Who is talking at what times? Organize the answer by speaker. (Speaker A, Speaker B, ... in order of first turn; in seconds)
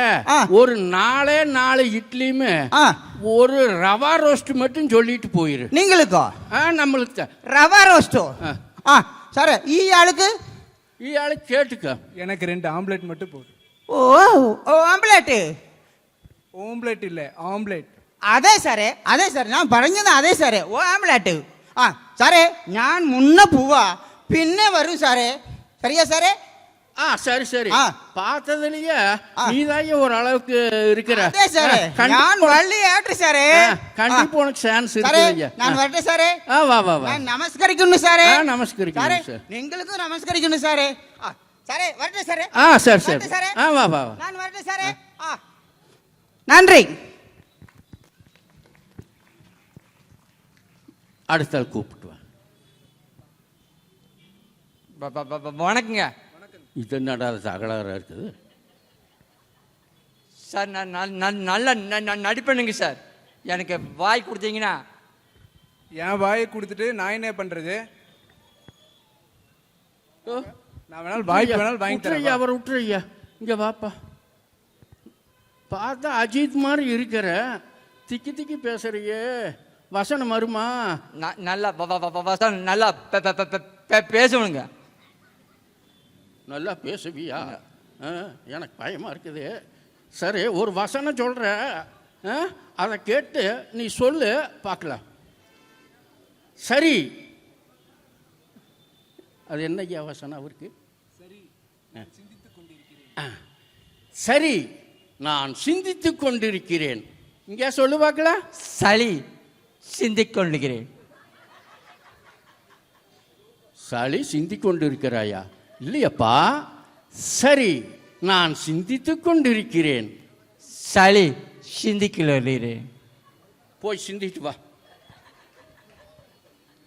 Speaker A: 0.5-2.6, 3.3-5.7, 6.5-7.3, 11.0-12.0, 27.0-32.6, 33.5-35.8, 36.5-37.2, 38.2-39.4, 42.6-44.2, 51.3-52.2, 56.8-58.3, 71.1-73.9, 75.7-77.4, 78.1-80.7, 86.5-89.5, 90.2-95.0, 96.6-97.1, 99.5-100.7, 104.2-104.6, 105.2-108.4, 113.9-116.6, 117.2-120.1, 123.8-124.6
Speaker B: 5.7-6.3, 7.5-8.3, 8.8-10.3, 13.9-15.4, 18.3-26.3, 31.1-34.3, 35.0-36.4, 37.0-38.4, 39.0-43.5, 44.2-45.4, 46.5-46.9
Speaker C: 12.2-13.5, 16.6-17.9, 56.4-56.6, 66.0-67.8, 70.9-72.4, 101.2-103.1
Speaker D: 55.0-56.1, 60.5-64.8, 81.2-84.7, 108.6-109.2, 109.9-110.8, 120.8-122.8